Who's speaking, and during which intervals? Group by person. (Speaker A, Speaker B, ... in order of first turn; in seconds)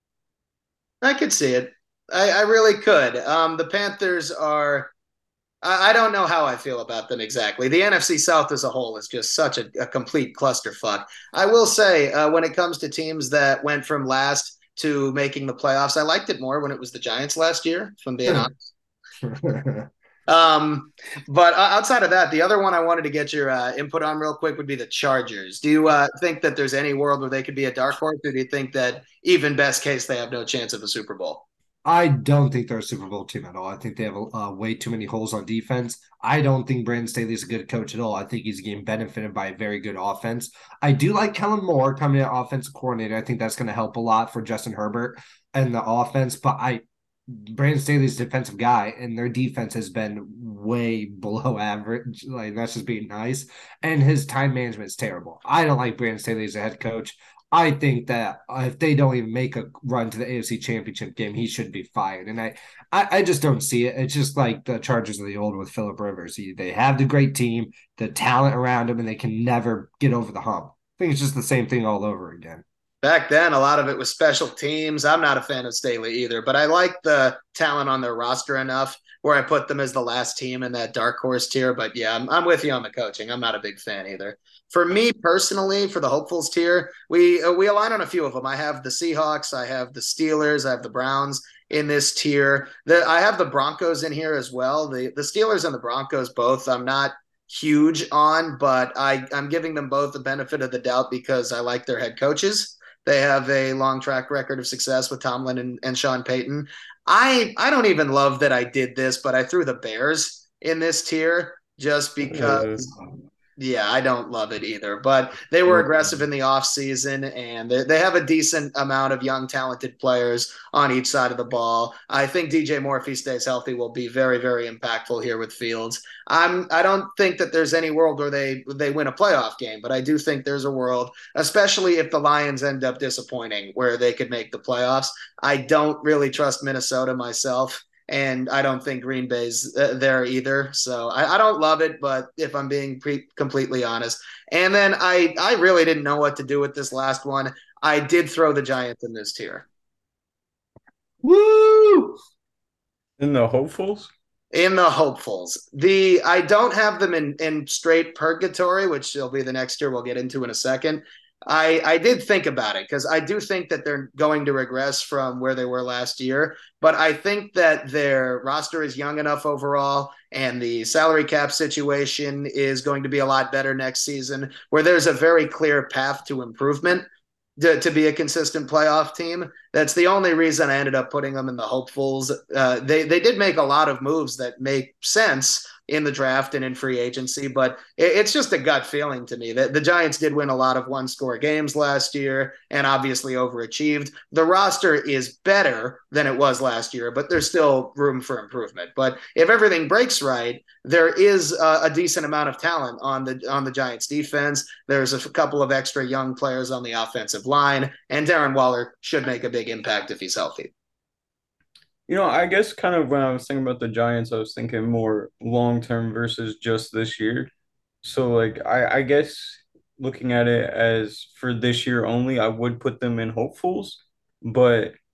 Speaker A: 1.0-4.9, 5.6-18.5, 20.3-31.4, 73.0-112.9, 113.6-149.7, 154.5-177.1, 177.6-210.7
Speaker B: 19.2-19.9, 31.9-72.6, 151.2-152.2
Speaker C: 112.2-112.9, 153.2-154.1, 212.1-217.5, 218.0-224.9